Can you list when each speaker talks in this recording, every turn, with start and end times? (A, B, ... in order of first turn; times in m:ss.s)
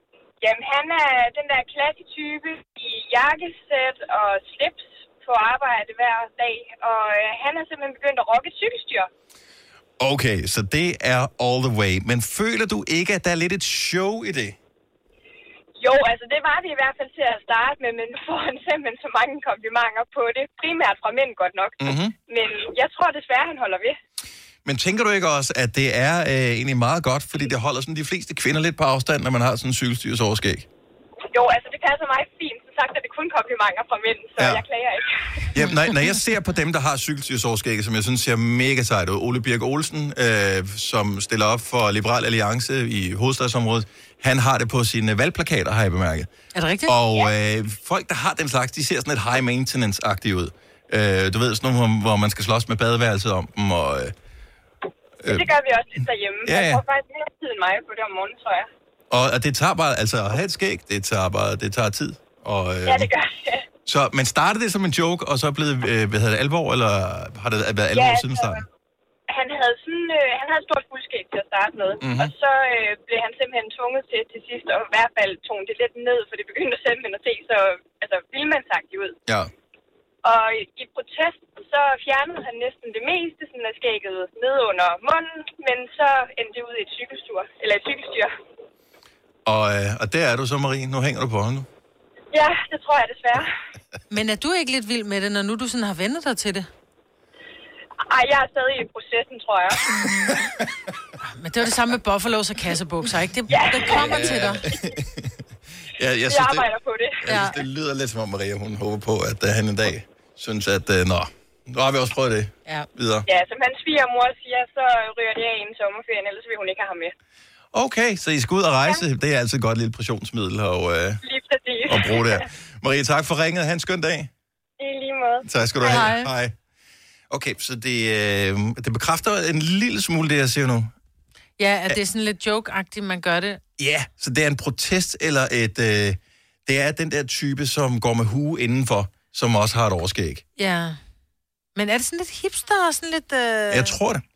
0:00.4-0:09.1 A
0:10.0-0:14.6 B
0:15.8-0:24.0 A
0:21.8-0:22.2 B
0:24.6-0:30.7 B
0:31.3-0:35.5 A
0:34.4-0:34.6 B
0:35.5-0:46.3 B
0:46.6-0:47.0 C
0:46.9-0:54.1 B
0:55.2-0:55.5 B
0:55.3-0:58.7 A
0:56.4-0:56.8 B
0:59.1-1:03.1 B
1:02.8-1:03.6 A
1:03.8-1:08.6 B
1:07.9-1:08.6 A
1:09.3-1:19.2 A
1:12.0-1:12.3 B
1:19.2-1:19.5 B
1:20.2-1:28.3 A
1:29.5-1:31.7 B
1:32.3-1:33.5 A
1:34.1-1:36.7 C
1:38.1-1:39.9 A
1:39.9-1:40.4 C
1:40.0-1:40.8 B
1:41.2-1:44.7 C
1:43.5-1:44.2 A
1:43.8-1:45.4 B
1:45.9-1:53.3 B
1:46.3-1:47.2 A
1:47.2-1:47.6 C
1:53.2-1:57.1 A
1:57.7-2:01.2 B
2:01.2-2:02.5 A
2:01.9-2:04.3 B
2:04.8-2:06.1 A
2:05.4-2:06.6 B
2:05.8-2:06.3 C
2:07.3-2:10.9 B
2:11.6-2:13.6 C
2:13.8-2:20.4 B
2:20.6-2:21.0 C
2:21.8-2:24.0 C
2:23.7-2:24.2 B